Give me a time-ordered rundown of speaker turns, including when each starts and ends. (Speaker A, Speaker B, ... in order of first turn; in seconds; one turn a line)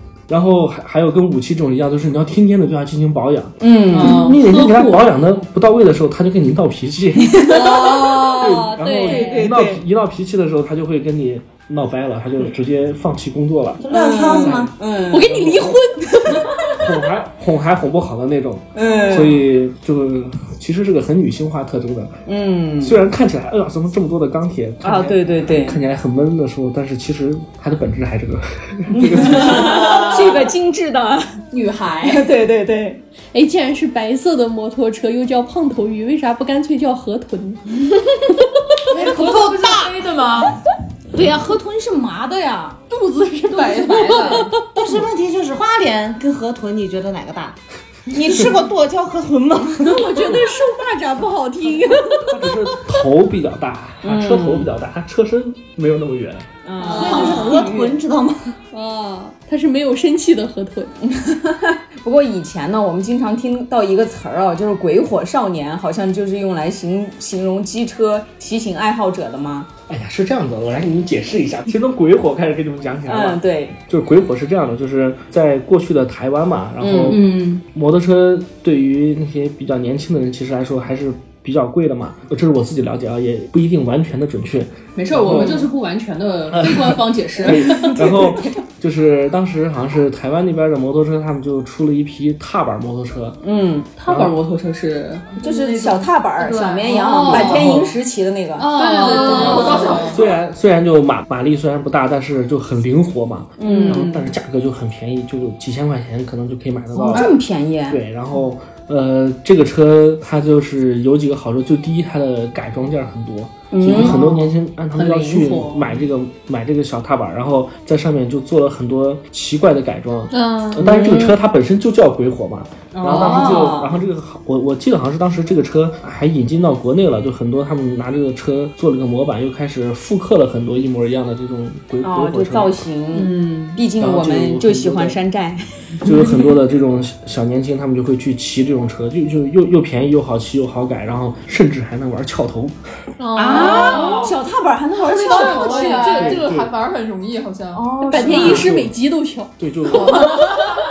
Speaker A: 0.3-22.2
Speaker B: 3.6-4.3
Speaker C: 3.9-5.0
Speaker B: 7.4-7.9
Speaker D: 7.4-9.4
Speaker B: 9.0-9.8
Speaker E: 13.8-14.8
Speaker B: 13.9-15.4
Speaker D: 15.1-16.8
Speaker B: 18.8-19.4
Speaker B: 22.3-23.0
Speaker A: 22.8-30.0
Speaker B: 24.8-25.8
Speaker B: 28.9-31.4
Speaker E: 29.7-30.3
Speaker C: 31.5-32.3
Speaker B: 32.0-33.0
Speaker D: 33.3-37.8
Speaker F: 38.9-40.6
Speaker E: 38.9-40.0
Speaker B: 41.1-42.8
Speaker D: 42.9-44.5
Speaker C: 43.5-44.5
Speaker F: 43.6-44.4
Speaker E: 44.7-50.5
Speaker D: 49.8-52.5
Speaker A: 52.0-56.5
Speaker B: 54.0-54.7
Speaker B: 56.6-58.0
Speaker E: 56.8-58.6
Speaker D: 56.8-57.7
Speaker D: 58.7-60.9
Speaker B: 61.0-69.7
Speaker A: 69.9-85.7
Speaker B: 73.1-73.8
Speaker B: 76.8-77.2
Speaker C: 77.1-77.6
Speaker C: 85.0-88.2
Speaker A: 86.5-93.4
Speaker B: 87.6-88.5
Speaker B: 93.4-93.9
Speaker C: 94.0-95.4
Speaker A: 94.1-94.3
Speaker F: 95.4-97.8
Speaker B: 95.4-100.1
Speaker C: 96.8-97.8
Speaker D: 97.2-97.5
Speaker A: 97.3-97.9
Speaker F: 98.6-100.2
Speaker C: 98.7-100.2
Speaker D: 99.0-100.0
Speaker A: 99.3-132.8
Speaker B: 103.6-104.1
Speaker C: 103.6-104.3
Speaker B: 107.0-108.0
Speaker B: 113.7-114.3
Speaker C: 113.9-114.4
Speaker C: 114.9-116.0
Speaker D: 120.3-120.8
Speaker B: 120.8-121.3
Speaker C: 122.9-123.9
Speaker B: 123.1-123.9
Speaker B: 132.0-136.2
Speaker C: 133.1-133.8
Speaker A: 134.0-135.2
Speaker A: 136.0-142.8
Speaker D: 143.2-144.3
Speaker B: 143.3-146.4
Speaker F: 143.5-144.4
Speaker C: 143.5-144.0
Speaker F: 145.0-147.8
Speaker C: 145.2-146.4
Speaker A: 146.1-146.7
Speaker B: 147.7-148.8
Speaker D: 148.0-149.5
Speaker A: 148.1-148.9
Speaker A: 149.6-150.5
Speaker B: 150.0-150.3
Speaker D: 150.1-150.4